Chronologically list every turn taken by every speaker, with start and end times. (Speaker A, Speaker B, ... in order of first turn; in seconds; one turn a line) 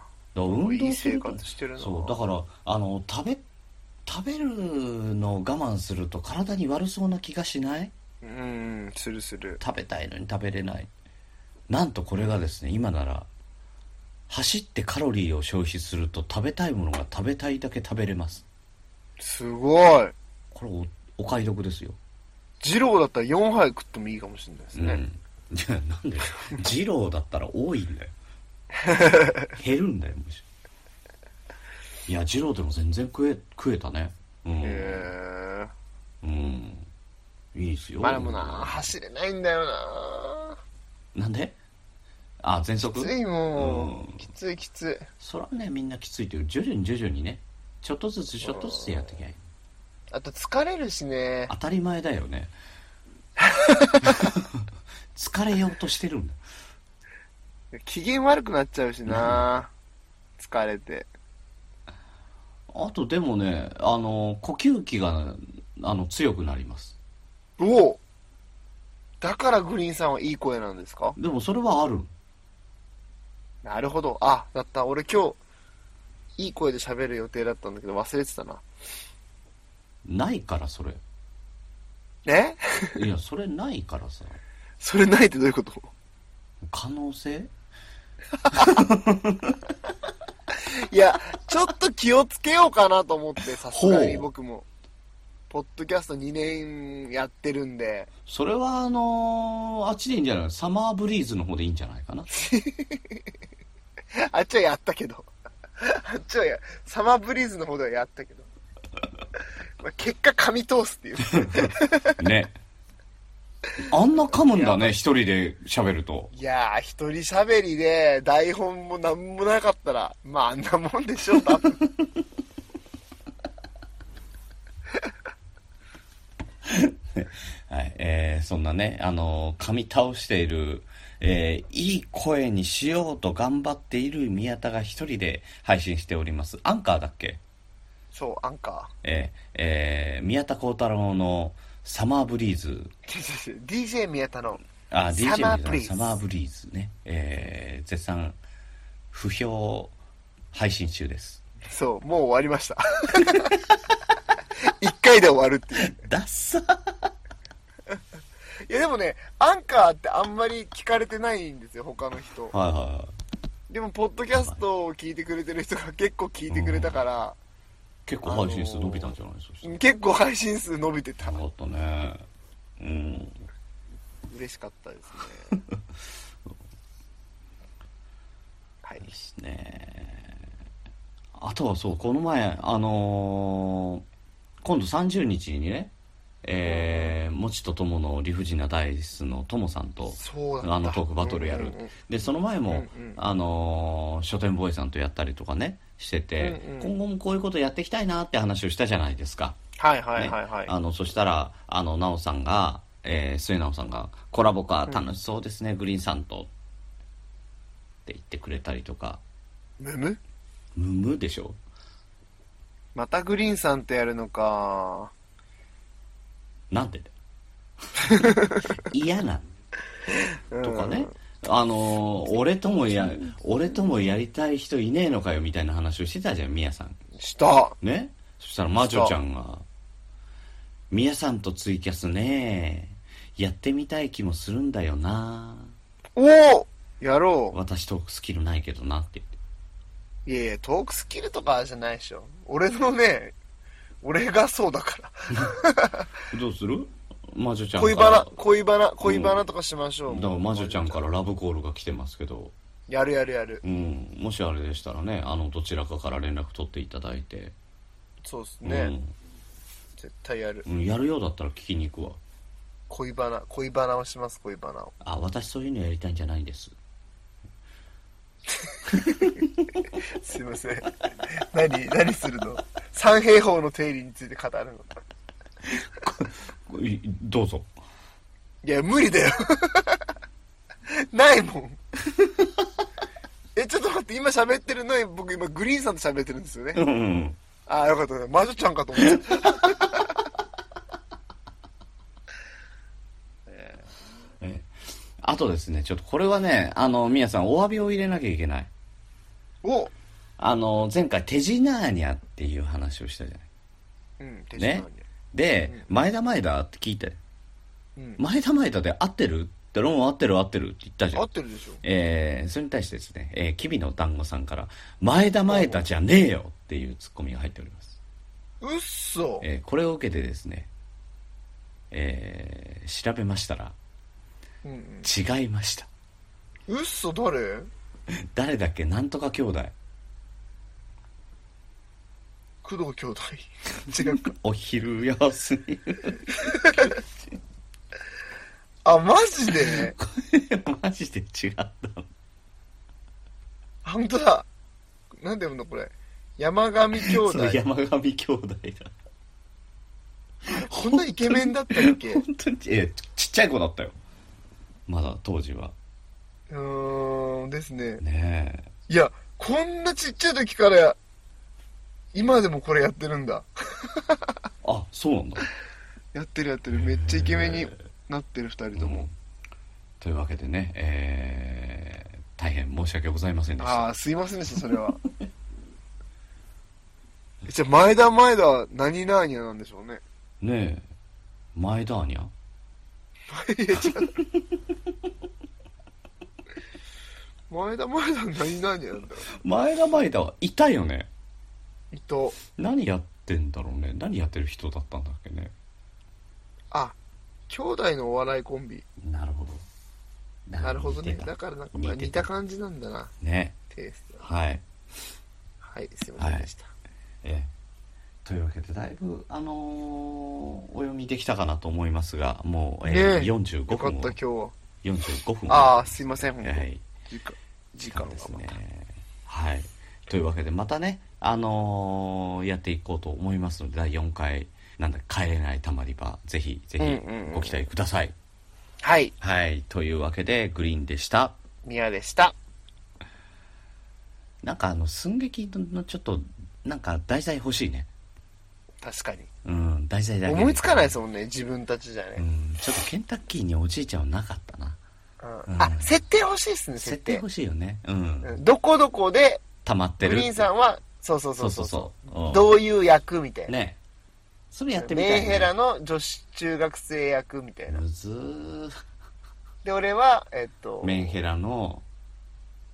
Speaker A: 0.3-3.4
Speaker B: 0.5-2.2
Speaker A: 4.0-7.9
Speaker B: 8.2-9.6
Speaker A: 9.6-10.9
Speaker A: 11.7-13.3
Speaker A: 14.3-18.4
Speaker B: 19.2-20.1
Speaker A: 20.5-22.0
Speaker B: 22.6-25.0
Speaker A: 24.7-28.1
Speaker B: 28.8-29.5
Speaker A: 29.5-30.4
Speaker A: 32.1-35.1
Speaker B: 34.6-35.7
Speaker A: 36.2-36.9
Speaker A: 37.5-38.9
Speaker B: 38.0-40.6
Speaker A: 41.1-41.6
Speaker A: 42.4-44.2
Speaker B: 42.8-45.1
Speaker A: 45.2-49.4
Speaker B: 48.4-49.1
Speaker B: 50.1-51.5
Speaker A: 51.5-52.5
Speaker B: 53.4-54.2
Speaker A: 54.0-56.4
Speaker B: 57.7-59.7
Speaker A: 59.1-59.5
Speaker B: 60.4-61.1
Speaker A: 62.7-67.0
Speaker B: 67.6-68.0
Speaker B: 69.2-71.2
Speaker A: 71.2-72.1
Speaker B: 73.6-75.4
Speaker B: 76.4-78.6
Speaker A: 80.0-81.0
Speaker B: 82.2-83.0
Speaker A: 82.9-84.4
Speaker B: 84.8-85.9
Speaker A: 86.6-87.5
Speaker A: 88.5-89.6
Speaker B: 90.5-94.7
Speaker A: 93.7-94.2
Speaker B: 95.5-98.1
Speaker A: 98.2-102.3
Speaker B: 102.3-103.3
Speaker B: 104.1-108.5
Speaker B: 109.8-112.2
Speaker A: 111.3-112.6
Speaker A: 113.8-116.3
Speaker B: 114.2-114.9
Speaker B: 116.3-121.8
Speaker A: 126.7-137.4
Speaker B: 138.1-138.9
Speaker A: 139.0-142.9
Speaker B: 143.1-146.2
Speaker A: 144.9-148.4
Speaker A: 149.1-149.9
Speaker A: 150.5-151.4
Speaker B: 151.7-153.5
Speaker B: 154.6-156.0
Speaker A: 155.8-157.1
Speaker B: 158.7-162.5
Speaker A: 162.5-163.1
Speaker B: 163.7-167.4
Speaker A: 166.5-167.0
Speaker A: 168.1-169.8
Speaker B: 168.2-171.4
Speaker A: 171.2-172.2
Speaker A: 172.8-173.4
Speaker B: 174.3-175.5
Speaker B: 178.8-179.1
Speaker A: 179.0-180.3
Speaker A: 181.3-184.0
Speaker A: 184.6-185.9
Speaker A: 186.4-199.6
Speaker B: 186.7-187.2
Speaker B: 190.1-191.9
Speaker B: 192.7-193.2
Speaker B: 196.4-196.9
Speaker B: 199.8-200.7
Speaker A: 200.2-206.5
Speaker A: 208.1-209.2
Speaker B: 209.8-210.2
Speaker A: 210.8-211.6
Speaker B: 212.9-215.1
Speaker A: 216.7-217.1
Speaker B: 218.0-218.7
Speaker A: 218.7-219.4
Speaker B: 220.5-221.1
Speaker A: 220.6-227.0
Speaker B: 227.2-227.8
Speaker A: 227.8-229.6
Speaker B: 228.8-229.1
Speaker A: 230.9-235.7
Speaker B: 236.2-237.6
Speaker A: 237.5-239.3
Speaker B: 240.2-243.3
Speaker B: 244.0-246.1
Speaker A: 246.3-248.3
Speaker B: 247.8-251.0
Speaker A: 249.0-249.4
Speaker A: 250.1-252.5
Speaker B: 252.9-253.6
Speaker A: 253.6-257.5
Speaker B: 258.2-258.9
Speaker A: 258.6-259.1
Speaker B: 260.0-260.6
Speaker A: 260.6-262.2
Speaker B: 262.9-264.9
Speaker A: 265.0-266.7
Speaker B: 268.6-274.9
Speaker A: 275.7-277.7
Speaker B: 278.6-280.1
Speaker B: 280.9-281.8
Speaker A: 282.1-282.5
Speaker B: 283.5-286.8
Speaker A: 286.7-287.4
Speaker B: 287.7-290.3
Speaker B: 293.5-293.9
Speaker A: 294.4-294.7
Speaker A: 295.2-298.7
Speaker B: 299.6-299.9
Speaker A: 300.4-303.5
Speaker B: 304.2-305.1
Speaker A: 304.6-307.2
Speaker B: 307.9-308.2
Speaker A: 308.2-311.2
Speaker B: 311.1-311.8
Speaker A: 311.8-318.0
Speaker B: 315.5-315.8
Speaker B: 318.6-319.4
Speaker A: 319.4-320.7
Speaker A: 321.9-323.8
Speaker B: 324.6-325.1
Speaker A: 325.0-325.9
Speaker B: 326.7-327.7
Speaker A: 328.3-329.7
Speaker B: 332.6-334.3
Speaker A: 333.8-337.1
Speaker B: 336.4-336.9
Speaker B: 338.8-339.9
Speaker A: 339.6-342.1
Speaker B: 343.8-344.5
Speaker B: 345.2-347.6
Speaker A: 346.9-348.9
Speaker A: 350.5-353.9
Speaker B: 350.5-352.2
Speaker A: 354.9-355.7
Speaker B: 356.5-358.0
Speaker A: 358.0-358.7
Speaker B: 358.9-361.0
Speaker B: 362.1-364.4
Speaker A: 364.6-365.5
Speaker B: 366.1-369.1
Speaker A: 366.7-367.8
Speaker A: 368.7-369.1
Speaker A: 370.0-373.9
Speaker B: 373.6-375.0
Speaker B: 377.4-380.0
Speaker A: 380.4-380.8
Speaker A: 381.5-382.3
Speaker B: 383.3-384.2
Speaker A: 383.9-384.4
Speaker B: 387.5-389.3
Speaker A: 389.3-391.1
Speaker B: 391.9-392.4
Speaker A: 392.5-395.5
Speaker B: 396.7-396.9
Speaker B: 397.5-398.9
Speaker A: 399.0-399.6
Speaker A: 400.5-402.3
Speaker B: 400.6-403.1
Speaker A: 403.2-403.6
Speaker B: 403.7-404.2
Speaker A: 404.2-404.6
Speaker B: 405.6-406.7
Speaker A: 406.2-406.5
Speaker A: 407.2-407.5
Speaker A: 408.2-414.2
Speaker B: 412.8-414.6
Speaker A: 414.8-416.9
Speaker B: 415.5-418.5
Speaker A: 417.9-428.1
Speaker B: 426.8-427.6
Speaker B: 428.8-429.1
Speaker A: 429.2-431.4
Speaker B: 431.6-432.3
Speaker A: 434.4-437.9
Speaker B: 438.8-439.3
Speaker A: 439.4-440.9
Speaker B: 440.2-442.2
Speaker A: 442.2-444.8
Speaker B: 445.2-447.2
Speaker A: 445.5-445.9
Speaker A: 446.8-448.4
Speaker B: 448.2-449.5
Speaker A: 449.6-450.5
Speaker B: 450.0-453.5
Speaker A: 451.4-452.6
Speaker A: 453.5-453.8
Speaker A: 454.5-455.5
Speaker B: 454.8-457.8
Speaker A: 457.7-458.8
Speaker B: 459.6-461.1
Speaker A: 460.8-461.8